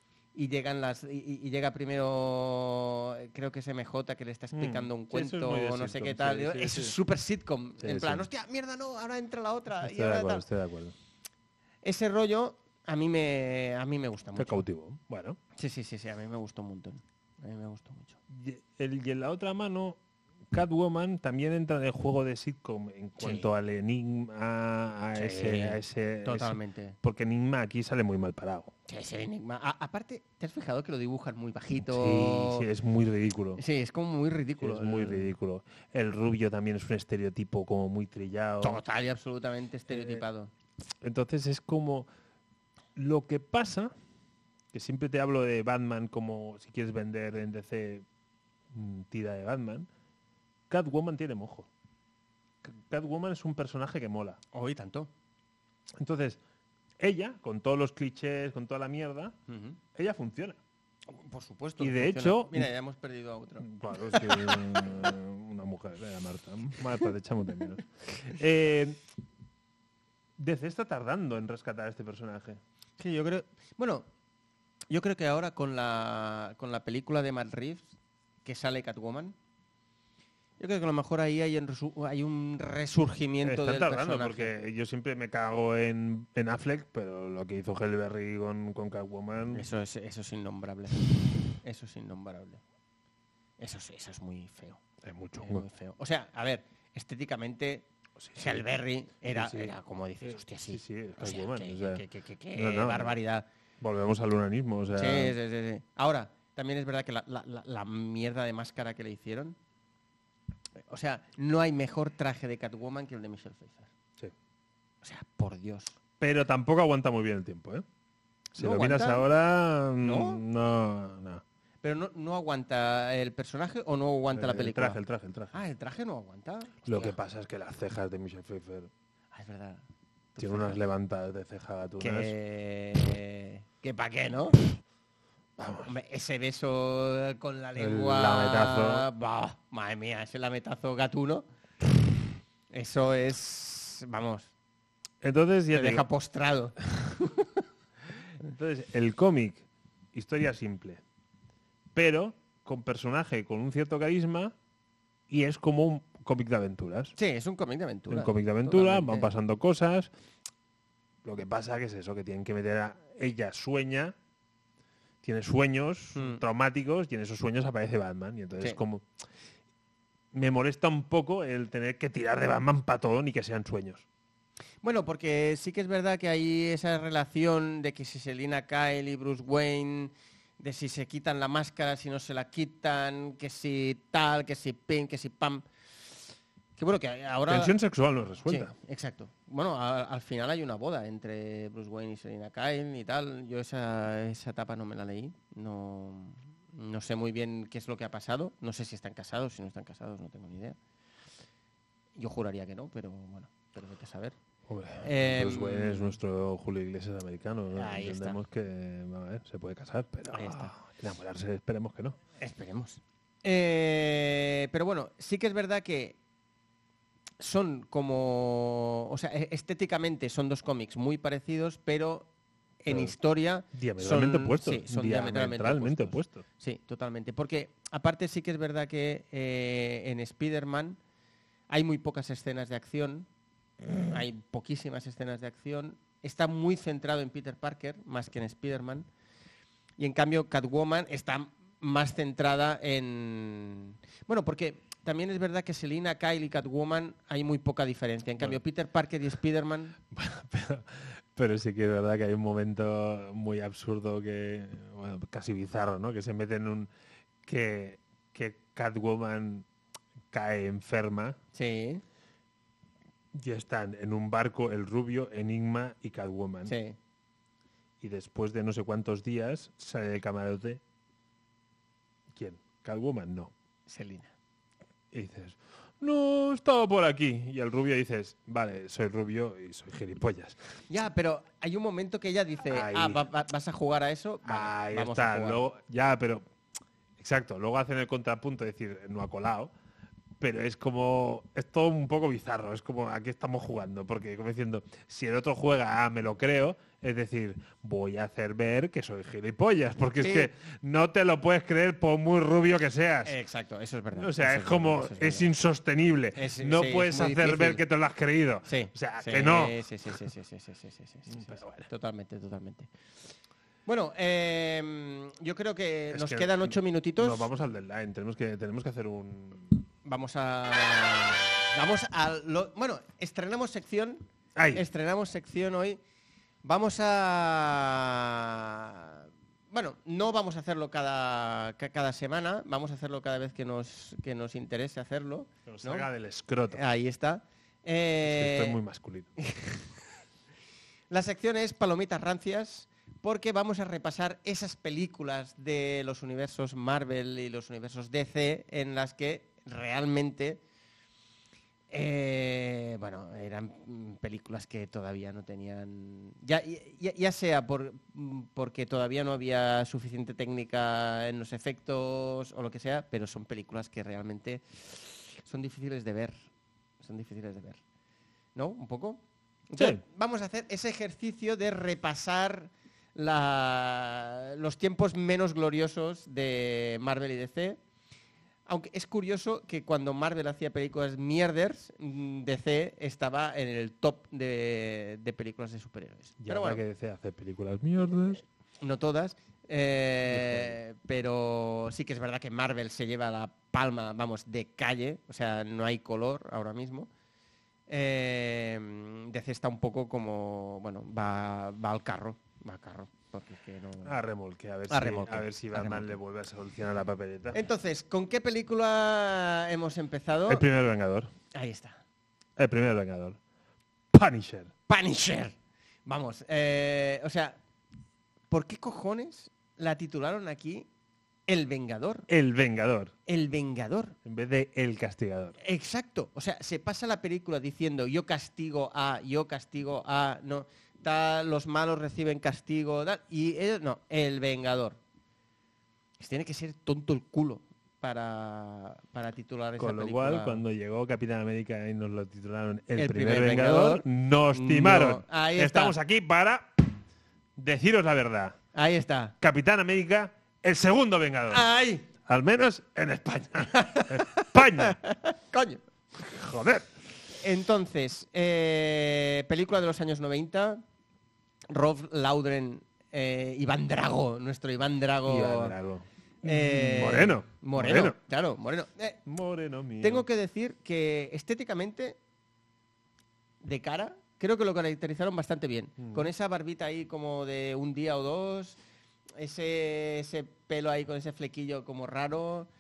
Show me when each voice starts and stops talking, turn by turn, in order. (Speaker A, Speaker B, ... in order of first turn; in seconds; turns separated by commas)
Speaker A: 0.3-10.4, Speaker B: 4.5-7.0, Speaker B: 7.8-8.3, Speaker B: 9.8-10.9, Speaker A: 11.8-14.6, Speaker B: 14.4-15.4, Speaker A: 15.6-18.2, Speaker B: 18.3-20.0, Speaker B: 20.5-28.7, Speaker A: 23.2-23.5, Speaker A: 25.1-27.0, Speaker A: 28.9-32.7, Speaker B: 31.8-33.6, Speaker A: 33.6-35.4, Speaker B: 34.6-38.8, Speaker A: 38.6-40.5, Speaker B: 39.9-40.2, Speaker B: 41.0-42.1, Speaker B: 43.0-43.9, Speaker B: 44.7-48.0, Speaker B: 48.7-49.9, Speaker B: 50.7-51.7, Speaker B: 52.6-54.4, Speaker A: 54.5-55.1, Speaker B: 56.0-56.4, Speaker B: 57.0-59.4, Speaker A: 59.5-59.8, Speaker B: 60.0-60.6, Speaker A: 61.1-65.0, Speaker B: 61.8-62.7, Speaker B: 63.6-69.0, Speaker B: 70.4-72.6, Speaker A: 73.0-74.1, Speaker A: 74.9-77.9, Speaker A: 78.5-79.4, Speaker A: 80.6-84.5, Speaker B: 83.4-89.7, Speaker A: 89.5-91.0, Speaker A: 91.6-92.6, Speaker A: 93.6-94.8, Speaker B: 95.0-95.7, Speaker A: 95.4-103.5, Speaker B: 98.2-98.7, Speaker B: 99.3-103.2, Speaker B: 103.8-105.4, Speaker A: 105.0-109.6, Speaker A: 110.9-113.9, Speaker A: 115.0-116.0, Speaker B: 116.2-117.8, Speaker B: 118.5-121.4, Speaker A: 118.6-119.3, Speaker A: 120.0-120.4, Speaker A: 121.8-125.0, Speaker B: 124.3-125.6, Speaker A: 125.5-127.2, Speaker B: 126.8-128.9, Speaker A: 129.3-130.8, Speaker B: 130.4-132.3, Speaker A: 132.0-134.8, Speaker B: 135.6-135.9, Speaker A: 135.9-141.4, Speaker B: 137.8-139.1, Speaker A: 142.7-144.5, Speaker B: 145.2-146.1, Speaker A: 145.7-147.6, Speaker B: 148.4-151.0, Speaker B: 151.9-154.6, Speaker B: 155.3-157.1, Speaker A: 157.2-159.3, Speaker B: 158.1-160.1, Speaker B: 161.2-164.2, Speaker B: 165.2-169.1, Speaker A: 166.2-166.4, Speaker B: 170.3-174.1, Speaker A: 174.8-185.7, Speaker A: 186.8-187.8, Speaker B: 187.5-188.7, Speaker A: 188.5-200.8, Speaker A: 202.2-204.4, Speaker B: 204.7-212.2, Speaker A: 205.0-206.2, Speaker A: 207.8-208.4, Speaker A: 210.3-210.7, Speaker A: 212.4-216.2, Speaker A: 217.4-222.3, Speaker A: 222.8-231.0, Speaker B: 222.9-223.2, Speaker B: 223.7-226.4, Speaker A: 231.7-233.3, Speaker A: 234.0-239.1, Speaker A: 240.0-250.0, Speaker B: 250.1-256.9, Speaker B: 257.4-259.7, Speaker B: 260.3-261.4, Speaker A: 261.5-262.0, Speaker B: 263.3-266.7, Speaker A: 266.7-267.0, Speaker B: 268.0-270.8, Speaker B: 272.3-273.5, Speaker A: 273.9-274.3, Speaker B: 275.1-280.6, Speaker A: 280.9-285.6, Speaker B: 282.7-283.2, Speaker B: 284.4-286.5, Speaker B: 287.2-289.7, Speaker B: 290.4-303.4, Speaker A: 300.2-300.5, Speaker A: 303.2-305.5, Speaker B: 304.1-309.8, Speaker A: 306.4-307.8, Speaker A: 308.6-312.9, Speaker B: 311.3-311.9, Speaker A: 313.9-317.5, Speaker B: 316.1-319.8, Speaker A: 320.0-326.0, Speaker B: 324.6-324.9, Speaker A: 326.6-336.1, Speaker B: 335.7-336.8, Speaker A: 336.7-338.8, Speaker B: 338.2-339.3, Speaker A: 341.1-350.6, Speaker A: 351.9-366.4, Speaker A: 367.0-367.8, Speaker A: 368.6-377.8, Speaker B: 369.8-370.0, Speaker A: 378.7-386.8, Speaker B: 386.4-388.4, Speaker A: 388.8-397.1, Speaker B: 390.3-390.8, Speaker A: 397.9-404.2, Speaker B: 404.0-407.6, Speaker A: 404.9-406.2, Speaker A: 407.5-410.6, Speaker B: 410.5-411.3, Speaker A: 411.5-412.0, Speaker B: 412.6-413.4, Speaker B: 414.1-414.7, Speaker A: 414.9-415.6, Speaker A: 416.1-417.6, Speaker A: 418.5-420.9, Speaker A: 421.5-422.3, Speaker B: 422.3-423.1, Speaker A: 423.3-424.2, Speaker B: 424.2-425.6, Speaker A: 425.6-435.0, Speaker A: 436.2-440.6, Speaker B: 439.8-447.0, Speaker A: 442.9-446.0, Speaker B: 447.6-448.6, Speaker A: 448.7-449.4, Speaker B: 449.4-451.6, Speaker A: 451.5-452.1, Speaker B: 452.2-455.0, Speaker A: 453.6-455.8, Speaker B: 456.1-456.9, Speaker A: 457.4-460.8, Speaker A: 461.7-465.8, Speaker B: 465.3-468.2, Speaker A: 466.4-469.2, Speaker B: 469.3-470.3, Speaker A: 470.0-472.2, Speaker A: 473.6-478.8, Speaker B: 476.0-476.3, Speaker A: 479.4-482.7